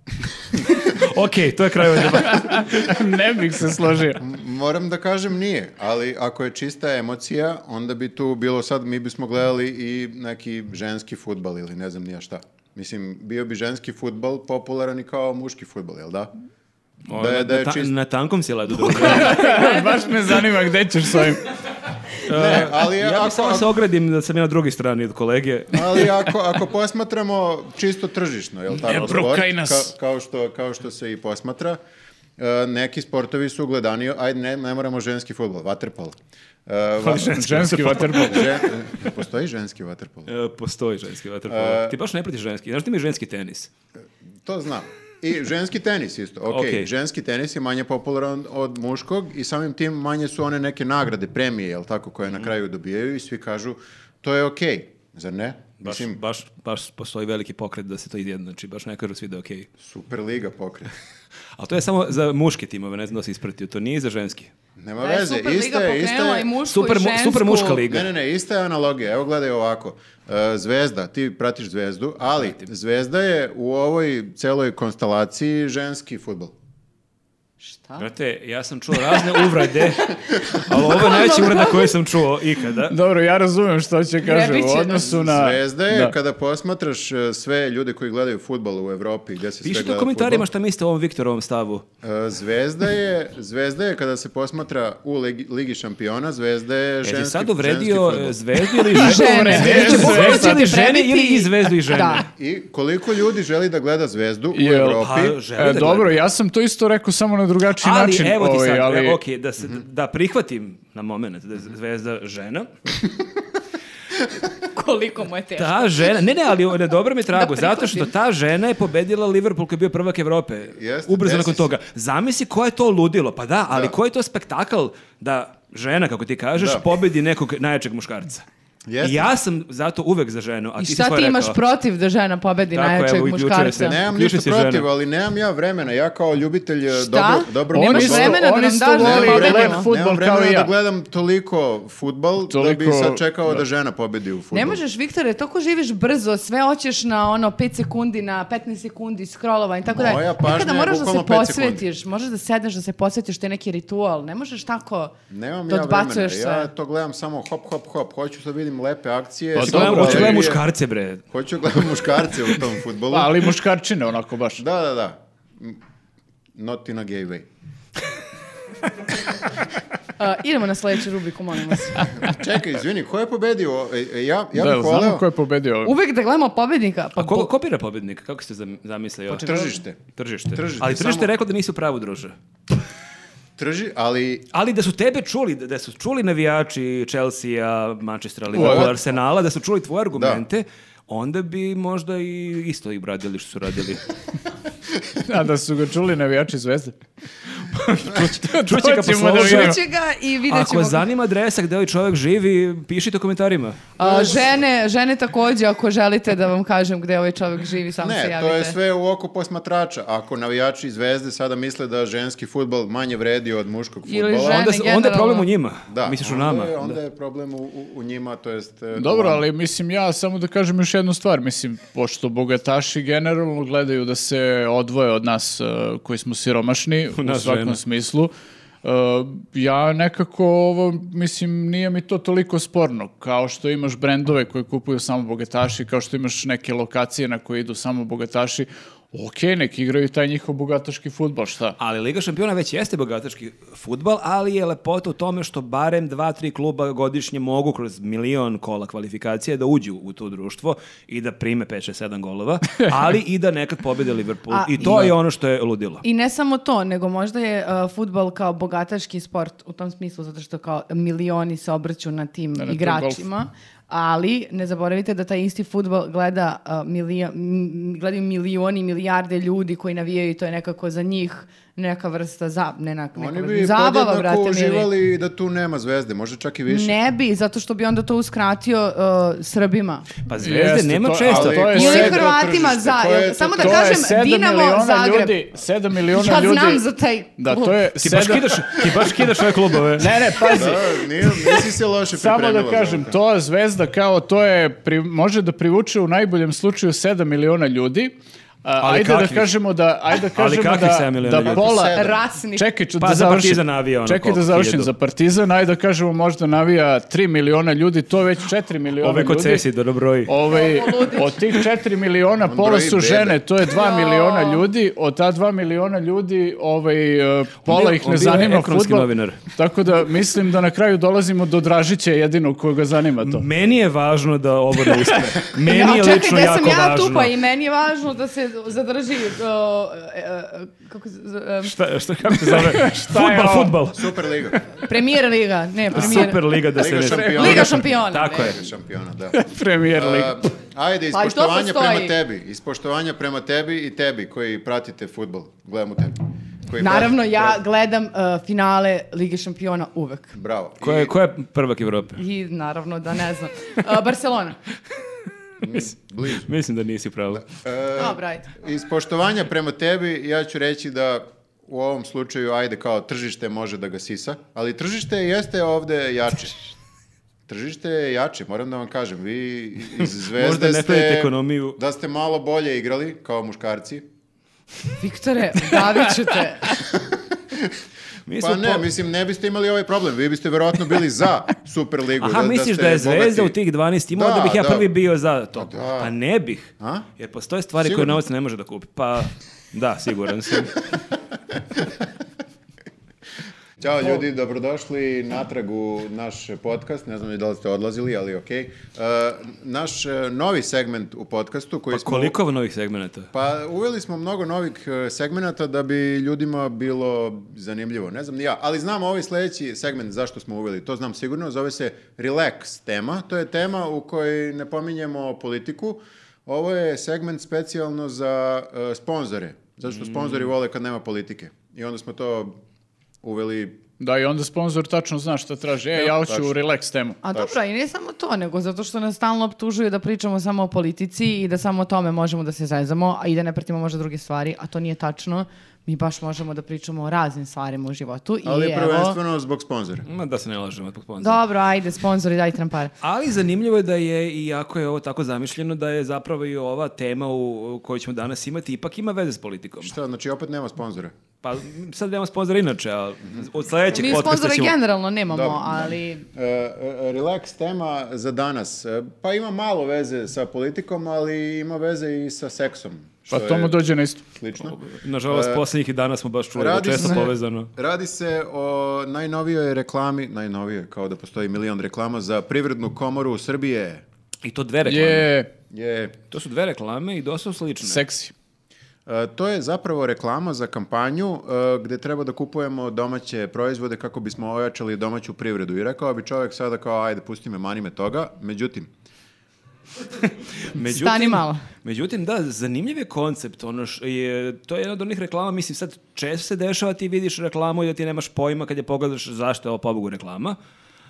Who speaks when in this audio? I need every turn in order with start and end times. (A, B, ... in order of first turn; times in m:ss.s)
0:00.5-0:00.8 A
0:00.8-0:02.9 B
0:02.1-0:04.2 C
0:04.2-0:16.3 A
0:17.1-0:19.6 B
0:17.2-0:17.9 A
0:18.8-0:21.5 C
0:19.5-0:19.9 D
0:22.3-0:26.1 B
0:22.3-0:23.7 A
0:25.7-0:31.8 A
0:28.8-0:29.9 C
0:32.4-0:36.2 A
0:36.7-0:40.3 A
0:37.1-0:38.6 B
0:37.1-0:38.6 C
0:40.3-0:43.7 B
0:41.5-0:42.0 A
0:44.5-0:56.2 A
0:46.5-0:46.9 B
0:55.8-0:59.7 B
0:59.8-1:00.9 A
1:01.6-1:04.5 B
1:04.8-1:06.5 A
1:05.0-1:07.9 D
1:06.7-1:08.1 B
1:07.9-1:16.5 A
1:17.6-1:18.1 D
1:18.0-1:23.0 B
1:19.2-1:21.9 D
1:22.9-1:26.2 C
1:24.2-1:25.1 D
1:25.0-1:30.5 A
1:29.6-1:31.8 B
1:32.0-1:38.4 A
1:37.0-1:42.3 B
1:38.9-1:40.8 C
1:38.9-1:42.3 D
1:42.4-1:45.4 A
1:44.5-1:49.2 C
1:45.0-1:46.2 B
1:47.8-1:52.7 B
1:54.7-1:56.2 D
1:55.6-2:08.4 B
1:57.3-1:58.1 D
2:00.8-2:01.7 A
2:03.7-2:04.0 A
2:06.6-2:06.8 A
2:08.9-2:09.3 A
2:09.0-2:11.6 B
2:10.8-2:14.0 D
2:12.7-2:14.9 B
2:13.8-2:18.5 A
2:16.9-2:19.9 D
2:17.7-2:20.7 C
2:19.0-2:24.8 A
2:22.4-2:23.6 C
2:24.5-2:35.2 D
2:29.9-2:31.8 A
2:35.3-2:40.6 A
2:35.7-2:36.7 D
2:39.6-2:40.6 C
2:39.6-2:41.2 B
2:41.3-2:43.4 A
2:43.1-2:44.6 C
2:44.6-2:45.8 A
2:46.6-2:47.5 A
2:50.2-2:52.2 D
2:52.1-2:55.3 A
2:54.6-2:55.9 C
2:55.8-2:57.5 D
2:57.2-2:59.5 B
2:59.3-3:00.0 A
2:59.4-2:59.8 D
3:00.1-3:02.4 B
3:00.5-3:01.3 A
3:03.6-3:04.5 A
3:04.5-3:14.1 B
3:08.5-3:09.0 C
3:08.6-3:08.9 A
3:10.1-3:10.4 A
3:15.2-3:17.0 C
3:17.7-3:19.8 B
3:18.1-3:19.8 C
3:19.4-3:21.1 D
3:20.5-3:24.0 B
3:24.0-3:28.8 D
3:24.0-3:24.4 A
3:28.0-3:34.6 A
3:34.1-3:35.5 D
3:34.4-3:37.0 B
3:35.9-3:39.5 A
3:38.9-4:01.8 C
3:47.2-3:47.8 B
4:01.8-4:16.0 B
4:14.5-4:15.1 D
4:14.8-4:15.1 C
4:16.0-4:34.9 D
4:22.6-4:23.2 C
4:33.2-4:37.0 A
4:36.7-4:40.1 D
4:40.3-4:41.8 B
4:40.4-4:42.2 C
4:41.3-4:44.1 A
4:41.7-4:45.4 D
4:43.6-4:46.8 C
4:46.1-4:47.9 D
4:47.4-4:48.8 C
4:48.0-4:50.2 B
4:50.0-4:51.6 C
4:50.5-4:53.2 A
4:52.1-5:09.7 C
4:58.8-4:59.5 B
5:00.4-5:01.7 B
5:01.4-5:02.2 A
5:01.9-5:02.7 D
5:03.0-5:04.9 B
5:09.0-5:10.4 B
5:10.3-5:23.5 C
5:10.5-5:11.4 D
5:12.4-5:13.4 A
5:13.7-5:14.6 D
5:17.7-5:19.4 B
5:23.2-5:27.3 B
5:25.6-5:31.7 D
5:31.6-5:34.4 B
5:32.4-5:33.8 C
5:33.9-5:34.6 A
5:34.8-5:36.6 D
5:35.9-5:38.6 B
5:35.9-5:36.2 A
5:36.7-5:47.6 A
5:37.1-5:37.6 C
5:37.2-5:38.6 D
5:39.3-5:40.4 C
5:41.1-5:42.2 D
5:46.8-5:50.4 D
5:50.3-5:51.1 A
5:50.8-5:52.2 B
5:52.2-5:54.6 D
5:55.6-5:56.5 A
5:56.4-5:57.5 B
5:57.3-6:06.7 A
5:58.0-5:58.5 D
6:07.5-6:14.1 A
6:10.0-6:11.8 B
6:15.0-6:16.8 D
6:16.9-6:17.7 A
6:18.3-6:18.8 B
6:18.4-6:23.6 A
6:22.2-6:30.8 B
6:24.1-6:24.9 A
6:25.6-6:26.1 A
6:26.8-6:27.1 A
6:27.8-6:28.2 A
6:33.8-6:42.4 A
6:41.9-6:43.3 B
6:43.3-7:02.6 A
6:59.9-7:00.5 B
7:03.2-7:03.8 A
7:04.0-7:07.2 C
7:06.0-7:06.6 A
7:07.2-7:19.2 D
7:18.4-7:20.0 A
7:20.0-7:21.4 B
7:21.2-7:22.9 D
7:23.0-7:30.0 B
7:29.8-7:31.1 A
7:31.4-7:34.8 B
7:34.0-7:36.2 D
7:35.3-7:45.6 A
7:43.3-7:44.2 C
7:44.8-7:47.7 B
7:46.6-7:54.0 A
7:54.4-7:55.3 B
7:54.8-7:55.5 C
7:55.7-7:56.2 A
7:56.3-7:58.0 B
7:57.8-7:58.3 C
7:59.1-8:08.9 A
8:10.7-8:20.6 B
8:10.8-8:11.6 D